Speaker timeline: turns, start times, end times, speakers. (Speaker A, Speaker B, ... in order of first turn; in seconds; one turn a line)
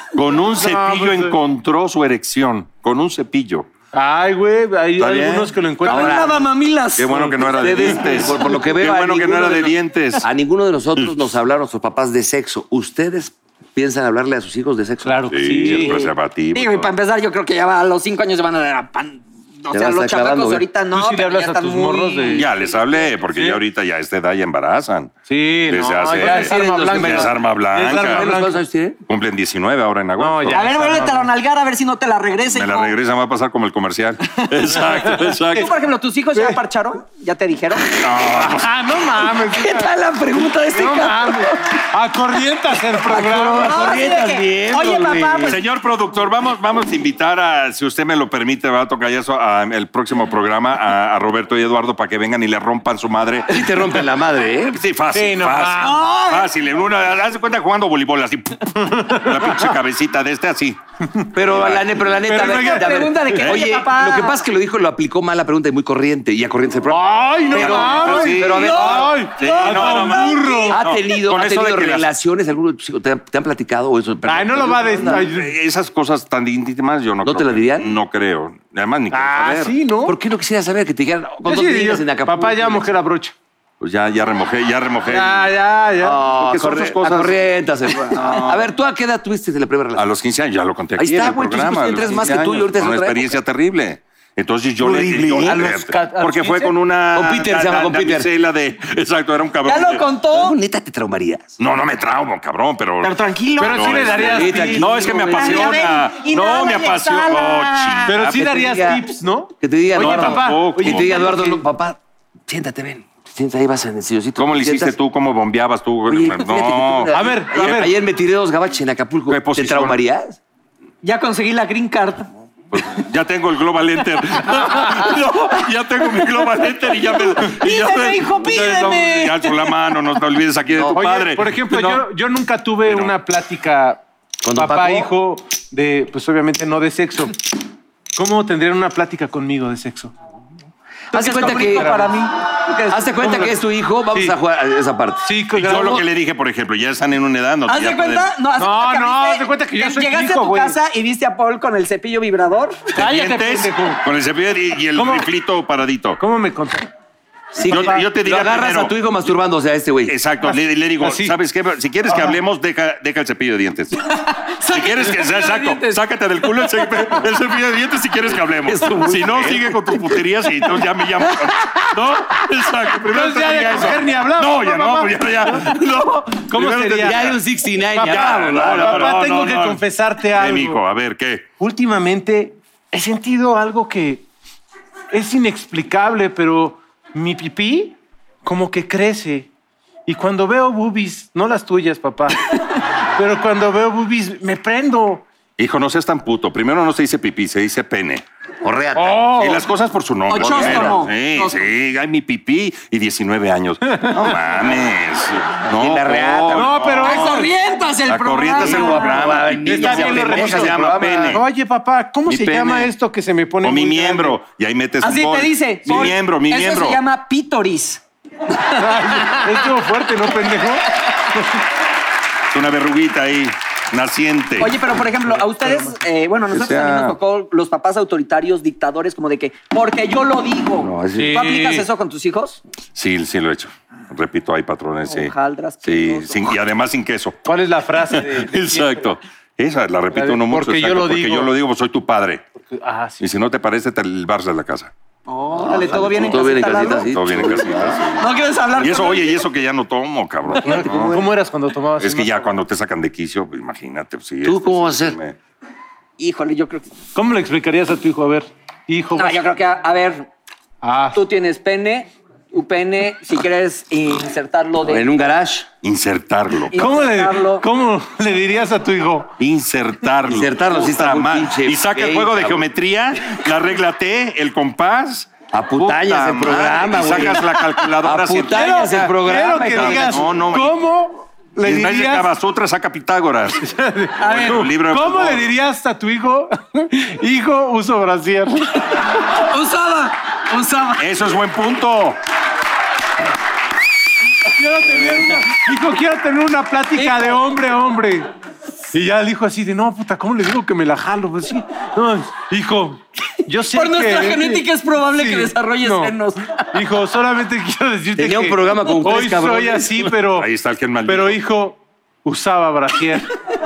Speaker A: 0.1-3.7
Speaker B: 0.5-1.4
Speaker B: 3.9-6.4
Speaker A: 5.0-5.5
Speaker C: 5.8-7.3
Speaker D: 5.9-6.3
Speaker A: 7.0-10.2
Speaker D: 7.4-16.1
Speaker B: 15.0-16.1
Speaker A: 15.3-16.9
Speaker C: 16.5-22.4
Speaker D: 19.7-20.7
Speaker B: 20.9-22.5
Speaker A: 22.3-28.3
Speaker B: 23.3-23.6
Speaker B: 25.3-28.6
Speaker D: 26.2-29.0
Speaker A: 29.1-30.6
Speaker B: 30.2-31.3
Speaker C: 30.5-33.0
Speaker A: 32.5-35.7
Speaker B: 34.7-35.7
Speaker C: 35.5-37.9
Speaker B: 36.3-36.6
Speaker A: 38.0-38.8
Speaker B: 38.2-39.9
Speaker C: 39.5-41.6
Speaker B: 40.7-44.0
Speaker D: 43.0-45.6
Speaker C: 43.5-45.6
Speaker A: 45.5-54.0
Speaker D: 53.5-54.8
Speaker A: 54.7-60.8
Speaker B: 55.1-56.0
Speaker C: 55.8-56.5
Speaker B: 58.8-59.8
Speaker D: 61.3-69.2
Speaker A: 61.5-62.0
Speaker B: 62.2-63.5
Speaker C: 62.6-64.4
Speaker A: 63.4-63.6
Speaker B: 66.9-70.8
Speaker A: 67.5-72.1
Speaker C: 68.4-70.8
Speaker D: 70.7-75.3
Speaker B: 74.2-75.5
Speaker A: 75.1-79.8
Speaker D: 77.2-77.9
Speaker B: 79.1-80.2
Speaker D: 80.0-82.9
Speaker B: 81.4-83.3
Speaker A: 83.8-85.5
Speaker B: 85.1-86.2
Speaker D: 86.0-90.1
Speaker A: 86.3-87.4
Speaker A: 88.1-88.6
Speaker B: 88.1-88.5
Speaker A: 90.0-100.0
Speaker D: 91.0-93.4
Speaker B: 94.8-96.8
Speaker D: 95.3-95.7
Speaker D: 97.1-98.3
Speaker C: 99.7-100.6
Speaker D: 100.3-101.5
Speaker A: 101.6-108.2
Speaker C: 103.0-104.2
Speaker B: 103.6-105.1
Speaker D: 104.2-105.8
Speaker C: 105.0-108.2
Speaker B: 108.1-111.6
Speaker D: 108.2-115.0
Speaker A: 110.0-111.1
Speaker A: 114.4-117.1
Speaker D: 116.1-120.4
Speaker B: 117.1-118.0
Speaker A: 119.3-120.0
Speaker C: 121.0-122.3
Speaker A: 122.7-132.0
Speaker C: 127.4-129.6
Speaker D: 130.7-131.0
Speaker B: 130.9-137.4
Speaker A: 132.9-133.2
Speaker D: 134.4-135.1
Speaker B: 138.2-140.1
Speaker D: 141.1-141.9
Speaker C: 141.1-143.3
Speaker B: 141.3-142.2
Speaker D: 142.9-145.3
Speaker B: 143.2-143.6
Speaker B: 145.2-146.1
Speaker A: 145.6-148.3
Speaker C: 147.7-152.9
Speaker B: 148.6-150.8
Speaker B: 152.9-154.0
Speaker A: 152.9-156.2
Speaker B: 154.9-155.3
Speaker B: 156.2-156.9
Speaker D: 157.6-160.2
Speaker B: 157.7-158.0
Speaker A: 157.7-158.9
Speaker A: 160.1-164.0
Speaker B: 161.0-161.3
Speaker C: 164.6-166.0
Speaker A: 164.7-177.4
Speaker D: 168.7-170.2
Speaker D: 171.2-171.8
Speaker B: 173.1-175.7
Speaker B: 176.3-177.3
Speaker D: 176.9-179.1
Speaker B: 177.9-180.8
Speaker A: 178.0-181.5
Speaker B: 181.6-184.3
Speaker B: 185.1-189.5
Speaker B: 190.1-195.3
Speaker A: 195.6-198.2
Speaker D: 198.6-199.5
Speaker B: 198.9-199.6
Speaker A: 199.4-207.5
Speaker C: 200.3-201.7
Speaker D: 200.3-201.0
Speaker D: 205.7-207.0
Speaker B: 206.5-207.5
Speaker C: 207.0-209.3
Speaker A: 208.1-211.4
Speaker D: 208.6-211.4
Speaker B: 209.6-214.4
Speaker A: 212.3-212.9
Speaker A: 213.6-217.0
Speaker C: 215.0-219.5
Speaker B: 218.8-220.8
Speaker A: 222.5-224.8
Speaker C: 224.6-232.6
Speaker B: 225.3-225.9
Speaker A: 226.5-227.2
Speaker D: 230.8-231.4
Speaker B: 231.2-231.9
Speaker A: 232.9-237.4
Speaker C: 235.1-236.6
Speaker B: 237.5-239.1
Speaker A: 238.1-242.4
Speaker B: 240.1-241.5
Speaker B: 242.6-243.2
Speaker A: 243.2-244.9
Speaker C: 245.3-247.1
Speaker D: 245.6-248.1
Speaker A: 246.9-251.2
Speaker C: 248.2-249.4
Speaker B: 250.6-252.5
Speaker D: 250.7-251.2
Speaker A: 252.0-255.4
Speaker D: 254.4-255.2
Speaker C: 256.2-256.9
Speaker B: 257.1-259.4
Speaker C: 259.1-260.3
Speaker B: 260.8-261.2
Speaker C: 261.1-265.1
Speaker D: 264.8-265.7
Speaker A: 265.8-266.8
Speaker C: 266.7-267.7
Speaker B: 266.7-269.3
Speaker A: 269.4-279.1
Speaker D: 270.2-272.7
Speaker D: 275.5-280.3
Speaker B: 278.5-282.3
Speaker A: 279.7-280.8
Speaker A: 281.6-283.6
Speaker B: 283.6-288.8
Speaker C: 284.2-284.7
Speaker A: 284.2-285.5
Speaker C: 289.1-291.0
Speaker A: 291.0-292.2
Speaker B: 294.5-298.3
Speaker C: 296.9-297.4
Speaker B: 298.9-310.5
Speaker C: 303.7-306.6
Speaker D: 308.2-310.1
Speaker A: 310.3-311.4
Speaker B: 311.1-313.3